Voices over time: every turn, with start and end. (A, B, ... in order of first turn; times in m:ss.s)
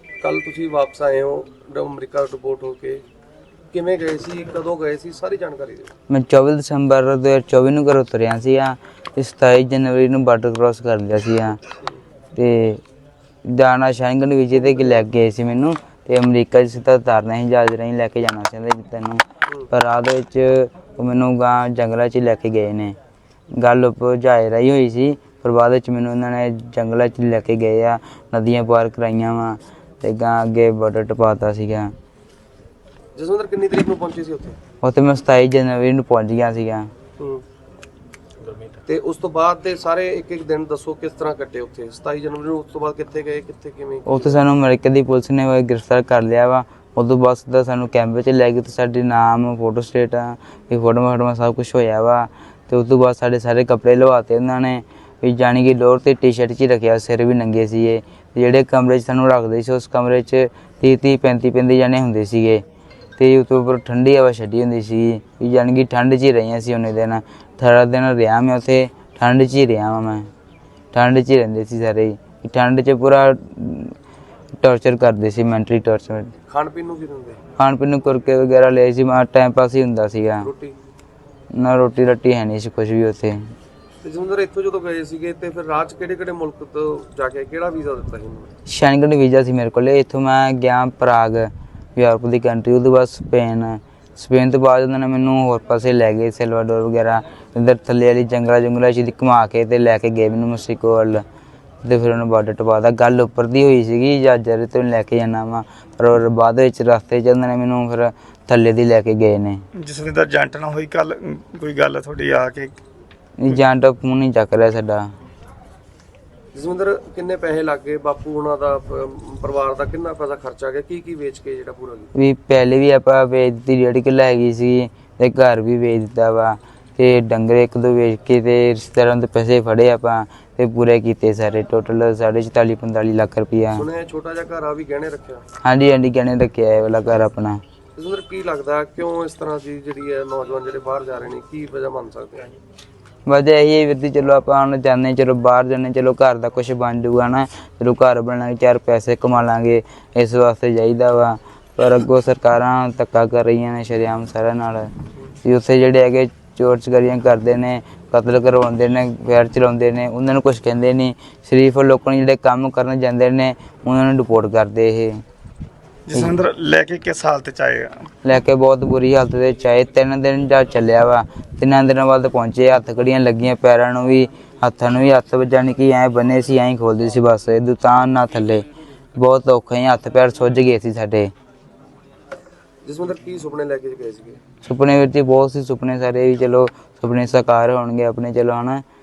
0:00.2-0:03.0 A
0:03.7-0:05.9 A
0:06.1-0:11.6 B
0:12.4-0:12.8 B
0:13.5-0:23.0 B
0:23.6-0:31.9 B
0:33.2-0:34.6 A
0:34.8-0:36.9 B
0:37.2-0:37.4 A
0:38.9-0:44.4 A
0:44.1-1:02.6 B
1:03.2-1:10.3 B
1:10.9-1:14.0 B
1:14.6-1:16.3 B
1:16.5-1:17.4 A
1:17.6-1:20.5 B
1:20.4-1:20.8 A
1:21.5-1:23.4 B
1:24.0-1:28.5 A
1:28.7-1:41.2 B
1:41.8-1:49.6 B
1:49.8-1:52.8 C
1:53.4-1:55.1 B
1:56.5-2:02.1 A
2:02.2-2:13.8 B
2:13.8-2:15.4 A
2:15.6-2:17.6 B
2:18.0-2:22.5 A
2:23.3-2:34.9 B
2:35.4-2:45.2 B
2:46.1-2:48.0 C
2:46.1-2:46.4 B
2:48.2-3:01.3 B
3:02.8-3:04.4 A
3:04.6-3:08.8 B